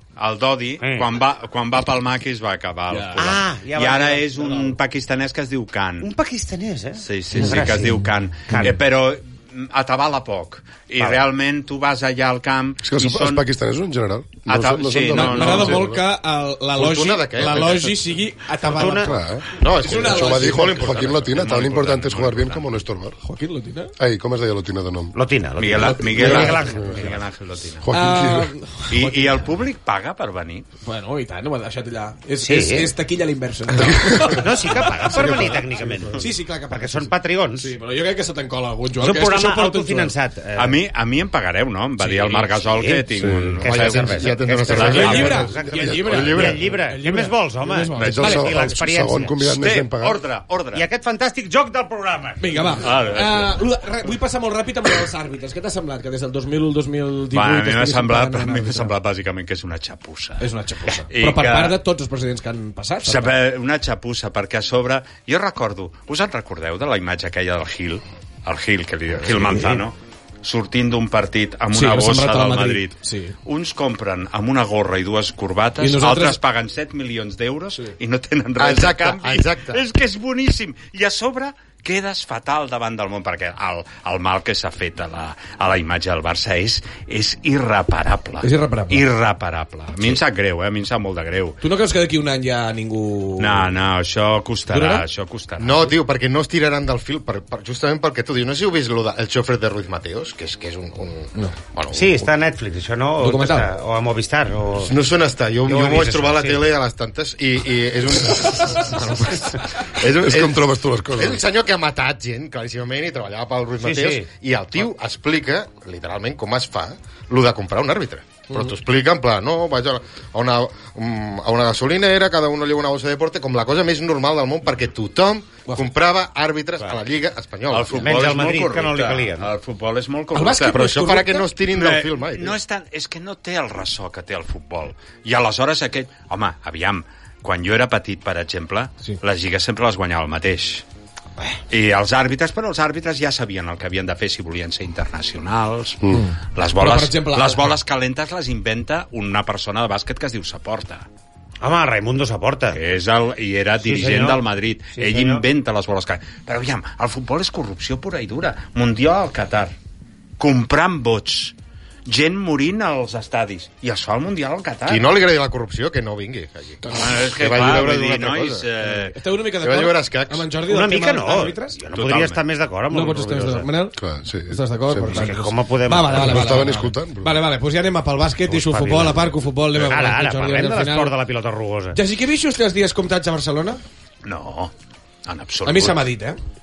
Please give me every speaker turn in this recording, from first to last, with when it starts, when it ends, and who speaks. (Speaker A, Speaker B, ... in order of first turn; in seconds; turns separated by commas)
Speaker A: 0.2-6.1, Speaker B: 0.8-1.1, Speaker C: 2.9-3.4, Speaker B: 3.2-4.7, Speaker B: 6.0-8.8, Speaker A: 7.0-13.4, Speaker D: 12.8-16.1, Speaker A: 14.5-15.9, Speaker C: 15.1-19.1, Speaker E: 16.8-18.0, Speaker B: 18.6-19.1, Speaker D: 19.0-23.2, Speaker E: 19.6-21.3, Speaker C: 19.8-20.9, Speaker A: 20.8-22.8, Speaker C: 23.2-23.9, Speaker D: 24.0-25.2, Speaker B: 25.1-27.2, Speaker A: 25.6-27.9, Speaker C: 25.8-26.6, Speaker D: 26.2-27.0, Speaker D: 27.8-28.5, Speaker C: 27.9-29.4, Speaker A: 28.9-30.7, Speaker C: 30.8-40.1, Speaker B: 32.4-32.9, Speaker D: 33.8-34.3, Speaker B: 34.3-37.7, Speaker B: 39.0-40.8, Speaker A: 40.6-45.5, Speaker C: 42.0-42.4, Speaker B: 42.3-43.1, Speaker D: 43.2-43.6, Speaker E: 43.6-46.7, Speaker B: 43.7-49.5, Speaker C: 44.7-48.8, Speaker D: 45.8-46.5, Speaker D: 48.0-50.2, Speaker A: 49.6-50.9, Speaker B: 50.7-52.7, Speaker C: 52.4-58.9, Speaker A: 52.8-53.5, Speaker A: 57.3-60.5, Speaker C: 60.4-63.4, Speaker A: 61.1-61.8, Speaker A: 63.0-91.6, Speaker B: 69.4-69.8, Speaker C: 71.7-73.4, Speaker C: 75.8-76.4, Speaker E: 78.6-79.8, Speaker C: 88.4-89.0, Speaker C: 91.6-93.7, Speaker A: 93.4-96.0, Speaker C: 94.7-95.0, Speaker E: 95.6-102.3, Speaker B: 101.9-105.0, Speaker C: 103.2-103.7, Speaker E: 104.8-128.4, Speaker B: 105.7-106.7, Speaker D: 110.2-111.4, Speaker B: 113.8-114.3, Speaker A: 127.7-130.8, Speaker B: 128.0-129.5, Speaker C: 130.3-131.5, Speaker E: 130.7-132.6, Speaker A: 131.7-140.8, Speaker A: 141.7-146.0, Speaker C: 146.1-147.7, Speaker A: 146.6-151.1, Speaker B: 151.6-152.8, Speaker A: 152.7-159.7, Speaker B: 153.8-155.4, Speaker A: 160.4-161.6, Speaker A: 162.1-165.1, Speaker E: 164.9-168.7, Speaker A: 166.9-169.2, Speaker C: 168.9-171.8, Speaker E: 169.5-170.5, Speaker B: 170.6-173.7, Speaker A: 171.9-172.4, Speaker C: 172.9-181.1, Speaker D: 174.0-175.3, Speaker B: 175.1-176.6, Speaker D: 176.1-177.4, Speaker B: 179.7-182.0, Speaker C: 181.9-183.8, Speaker A: 184.2-184.7, Speaker A: 185.3-186.0, Speaker C: 185.7-186.4